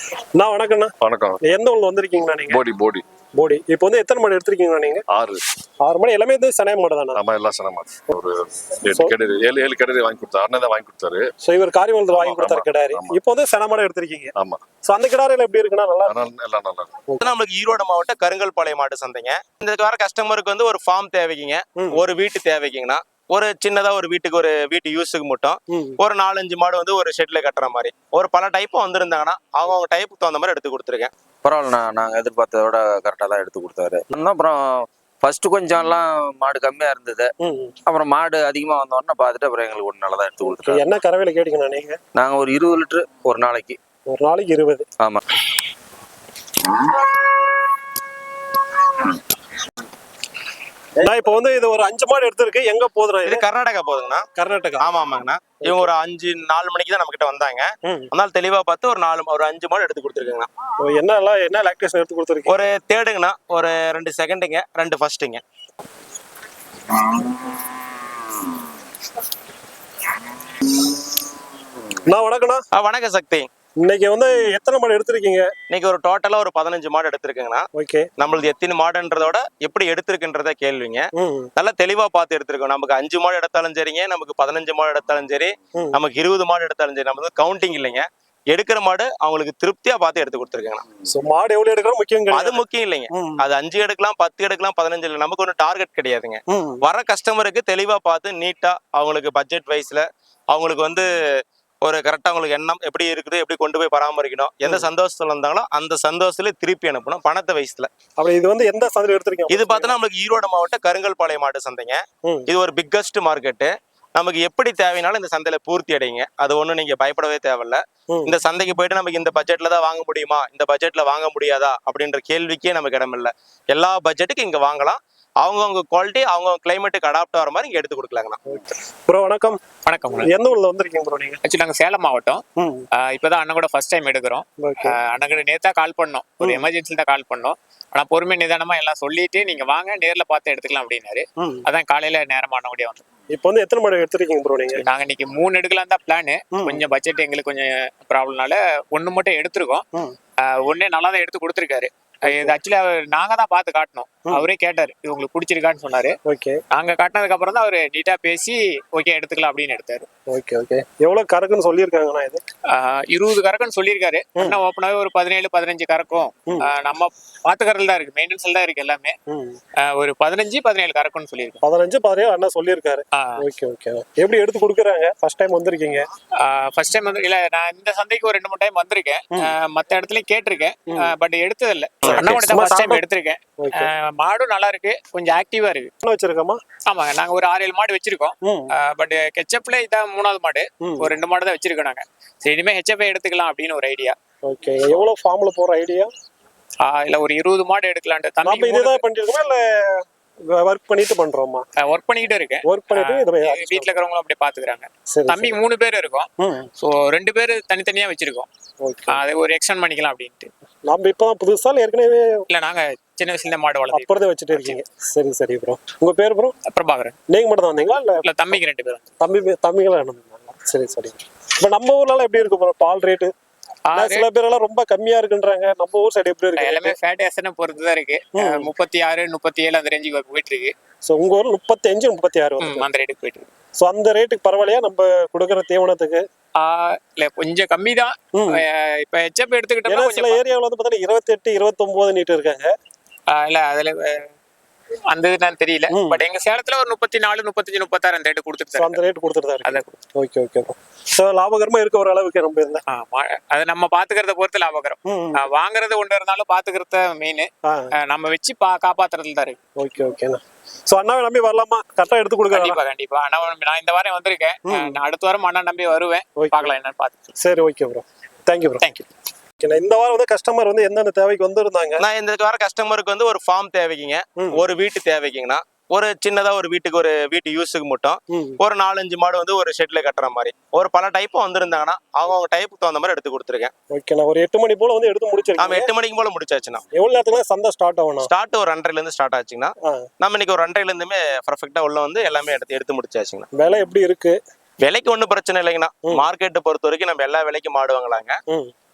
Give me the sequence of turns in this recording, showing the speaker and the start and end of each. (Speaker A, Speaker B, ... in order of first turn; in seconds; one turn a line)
Speaker A: 0.3-0.9
Speaker B: 1.0-1.4
Speaker A: 1.4-2.6
Speaker B: 2.5-3.0
Speaker A: 3.4-5.0
Speaker B: 5.1-5.4
Speaker A: 5.8-7.2
Speaker B: 7.1-11.2
Speaker A: 11.4-14.3
Speaker B: 12.1-13.2
Speaker B: 14.3-14.6
Speaker A: 14.8-16.2
Speaker B: 16.1-16.9
Speaker C: 17.2-31.1
Speaker A: 25.7-26.0
Speaker D: 31.4-37.3
Speaker A: 37.4-37.8
Speaker D: 37.9-40.9
Speaker A: 40.5-42.0
Speaker D: 42.1-43.8
Speaker A: 44.1-44.9
Speaker A: 51.0-53.4
Speaker C: 53.2-54.3
Speaker A: 54.3-54.9
Speaker C: 54.8-60.5
Speaker A: 55.6-55.9
Speaker A: 60.8-62.6
Speaker C: 62.5-65.4
Speaker A: 72.0-72.6
Speaker C: 72.7-73.5
Speaker A: 73.8-75.5
Speaker C: 75.7-77.7
Speaker A: 77.7-78.1
Speaker C: 78.2-90.8
Speaker A: 81.2-81.5
Speaker A: 91.1-92.6
Speaker C: 92.3-101.1
Speaker A: 93.1-93.4
Speaker A: 96.5-96.8
Speaker C: 101.8-107.9
Speaker A: 104.6-104.9
Speaker A: 108.2-109.9
Speaker C: 109.5-128.4
Speaker A: 128.5-129.6
Speaker E: 129.8-130.3
Speaker A: 130.2-131.4
Speaker E: 131.4-132.4
Speaker A: 132.6-132.8
Speaker E: 133.0-143.0
Speaker A: 134.6-134.9
Speaker A: 141.4-141.6
Speaker A: 143.3-144.8
Speaker E: 144.8-149.8
Speaker A: 146.6-146.8
Speaker E: 150.4-156.1
Speaker A: 152.3-152.5
Speaker A: 156.2-156.6
Speaker E: 156.7-160.1
Speaker A: 160.3-162.4
Speaker E: 162.7-169.2
Speaker A: 169.3-169.6
Speaker E: 169.8-171.6
Speaker A: 171.6-176.0
Speaker E: 173.1-173.4
Speaker E: 176.4-185.9
Speaker A: 182.0-183.0
Speaker C: 182.1-182.3
Speaker A: 183.6-183.9
Speaker A: 186.0-186.6
Speaker E: 186.9-194.1
Speaker A: 190.8-191.1
Speaker A: 194.4-196.1
Speaker E: 196.8-199.0
Speaker A: 198.4-201.7
Speaker E: 201.8-206.3
Speaker A: 202.6-203.9
Speaker A: 205.1-205.6
Speaker A: 206.4-206.7
Speaker E: 206.8-208.5
Speaker A: 208.8-209.2
Speaker E: 209.1-210.5
Speaker A: 210.8-212.4
Speaker E: 212.5-214.8
Speaker A: 213.9-216.5
Speaker E: 216.7-217.2
Speaker A: 217.3-218.2
Speaker E: 218.2-219.1
Speaker A: 219.2-223.3
Speaker E: 223.8-224.3
Speaker A: 223.9-226.9
Speaker E: 226.6-230.7
Speaker A: 228.4-228.7
Speaker A: 231.1-232.8
Speaker E: 232.6-233.5
Speaker A: 233.8-236.2
Speaker E: 236.6-240.4
Speaker A: 238.3-238.6
Speaker A: 239.9-242.7
Speaker E: 243.3-244.3
Speaker E: 245.1-249.0
Speaker A: 245.9-246.2
Speaker A: 248.8-252.8
Speaker E: 249.6-249.9
Speaker E: 252.9-257.5
Speaker A: 255.1-255.4
Speaker E: 258.0-259.6
Speaker A: 259.8-262.8
Speaker E: 262.5-267.4
Speaker A: 264.7-265.0
Speaker A: 267.4-268.8
Speaker E: 268.8-269.1
Speaker A: 269.6-272.0
Speaker C: 272.0-283.7
Speaker A: 278.3-278.6
Speaker A: 283.9-285.9
Speaker C: 285.6-286.8
Speaker A: 286.9-288.3
Speaker C: 288.2-293.5
Speaker A: 293.5-294.4
Speaker C: 294.8-298.4